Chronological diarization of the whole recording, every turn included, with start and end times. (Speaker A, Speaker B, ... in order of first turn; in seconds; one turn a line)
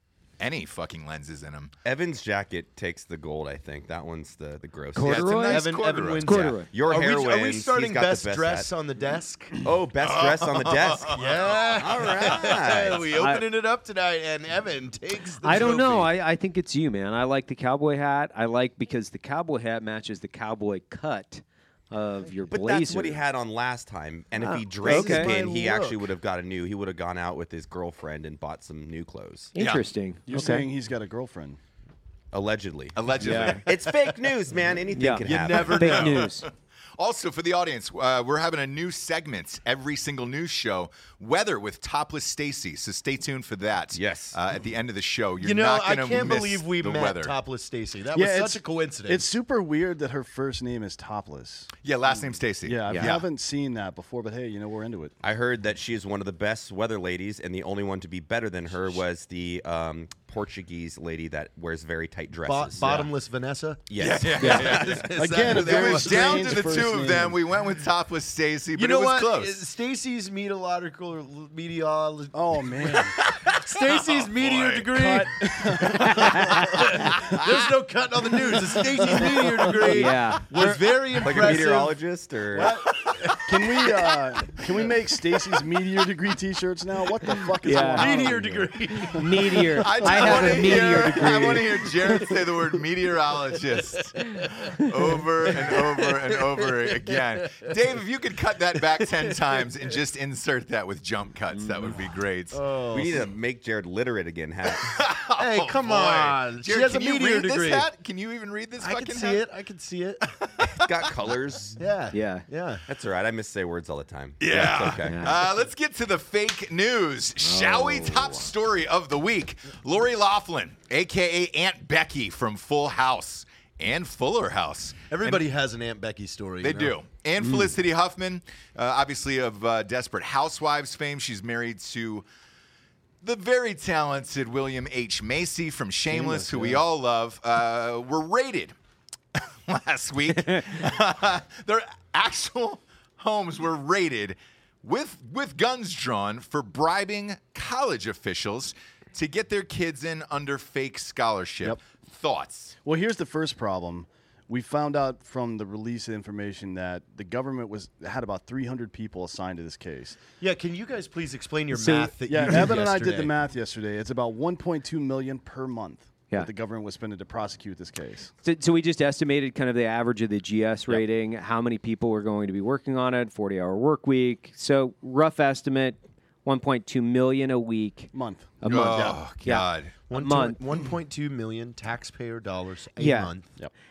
Speaker A: 0.4-1.8
Speaker B: 1.8-5.5
Speaker C: 4.9-6.7
Speaker A: 5.0-6.5
Speaker D: 5.1-9.6
Speaker B: 6.4-8.7
Speaker B: 9.5-11.2
Speaker A: 10.0-11.6
Speaker D: 11.1-16.1
Speaker B: 11.8-13.2
Speaker C: 13.2-13.4
Speaker C: 15.4-23.2
Speaker B: 22.5-29.5
Speaker C: 24.4-25.3
Speaker D: 24.8-26.1
Speaker C: 29.5-30.7
Speaker A: 29.6-29.8
Speaker E: 30.3-31.6
Speaker B: 32.3-36.1
Speaker A: 33.0-33.9
Speaker C: 33.2-33.6
Speaker C: 34.9-36.5
Speaker D: 35.2-36.3
Speaker A: 35.7-36.5
Speaker A: 37.0-47.3
Speaker B: 43.9-44.4
Speaker D: 45.4-49.2
Speaker E: 48.1-51.7
Speaker A: 51.8-53.2
Speaker E: 52.6-55.1
Speaker C: 52.9-53.1
Speaker B: 55.2-63.1
Speaker D: 62.5-66.8
Speaker B: 63.9-65.1
Speaker A: 64.0-69.6
Speaker C: 64.4-64.7
Speaker E: 65.1-67.4
Speaker D: 68.8-84.7
Speaker E: 72.3-73.2
Speaker A: 73.2-75.2
Speaker E: 74.9-77.4
Speaker C: 76.1-76.5
Speaker A: 76.5-77.6
Speaker E: 78.9-80.8
Speaker C: 79.8-80.5
Speaker B: 81.2-82.8
Speaker A: 82.8-83.7
Speaker E: 83.4-89.1
Speaker C: 87.6-88.4
Speaker D: 87.7-90.9
Speaker C: 89.0-92.1
Speaker A: 89.8-102.7
Speaker E: 90.1-90.8
Speaker D: 95.1-97.8
Speaker D: 98.7-100.0
Speaker C: 101.5-102.0
Speaker D: 102.5-103.3
Speaker B: 102.9-105.0
Speaker A: 104.7-109.4
Speaker D: 105.4-107.9
Speaker D: 108.8-110.2
Speaker A: 110.2-111.1
Speaker B: 110.6-111.8
Speaker D: 111.8-112.8
Speaker C: 112.1-112.5
Speaker B: 112.8-115.3
Speaker A: 114.4-125.5
Speaker C: 115.0-115.4
Speaker C: 117.4-118.5
Speaker D: 125.1-127.0
Speaker A: 126.6-132.3
Speaker C: 127.4-127.7
Speaker A: 133.2-138.7
Speaker D: 136.1-136.8
Speaker A: 139.4-152.7
Speaker C: 140.3-140.6
Speaker E: 152.8-160.2
Speaker D: 160.4-163.3
Speaker C: 161.7-162.7
Speaker E: 162.3-168.3
Speaker C: 168.4-180.6
Speaker E: 178.1-179.2
Speaker A: 178.7-180.0
Speaker D: 180.1-183.5
Speaker C: 183.0-183.3